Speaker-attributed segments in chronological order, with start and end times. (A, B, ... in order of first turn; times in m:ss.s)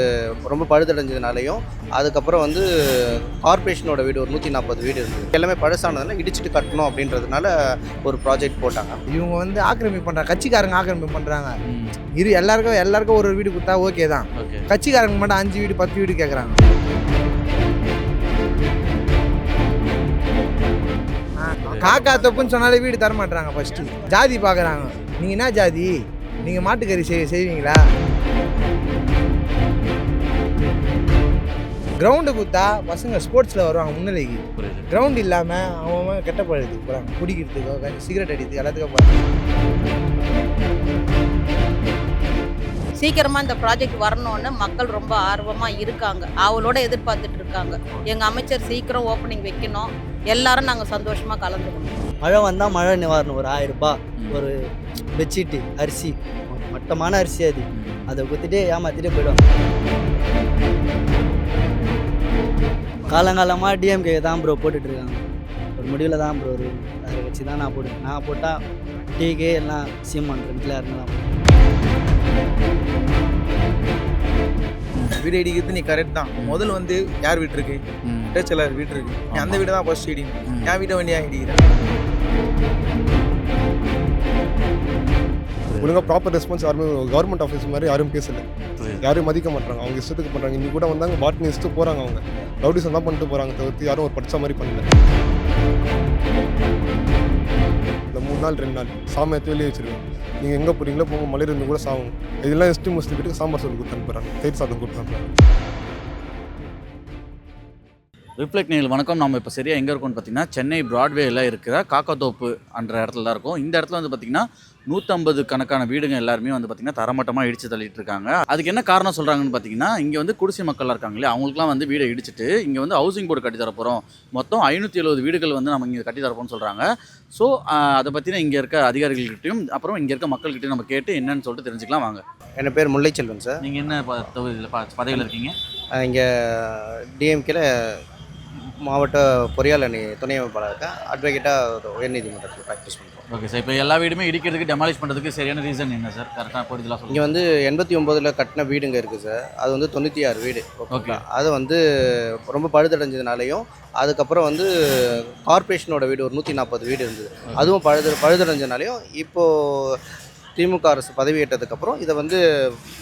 0:00.4-0:07.5 A
0:08.0-0:09.0 A
0:09.1-0:11.6 B
0:11.7-0:12.0 C
0:12.1-0:16.6 B
0:14.4-0:14.7 C
0:21.4-0:27.9 B
0:21.6-0:22.5 C
0:24.3-0:25.2 C
0:32.0-0:39.2 B
0:34.6-0:34.9 C
0:43.0-0:52.0 D
0:52.2-0:54.6 E
0:55.2-0:59.4 E
0:57.7-0:58.1 C
1:03.1-1:05.2 E
1:05.8-1:08.6 E
1:09.2-1:11.2 E
1:15.1-1:17.8 F
1:16.4-1:16.7 C
1:18.0-1:18.4 C
1:18.3-1:21.7 F
1:19.3-1:19.7 C
1:20.4-1:20.7 C
1:25.7-1:26.0 C
1:25.8-1:28.4 G
1:28.8-1:29.1 C
1:29.0-1:34.8 G
1:38.1-1:45.3 G
1:48.4-2:12.2 C
2:12.6-2:13.6 A
2:13.6-2:15.6 C
2:16.0-2:18.0 A
2:18.8-2:23.2 A
2:23.3-2:27.4 C
2:27.1-2:40.0 A
2:30.9-2:31.2 C
2:40.6-2:42.4 A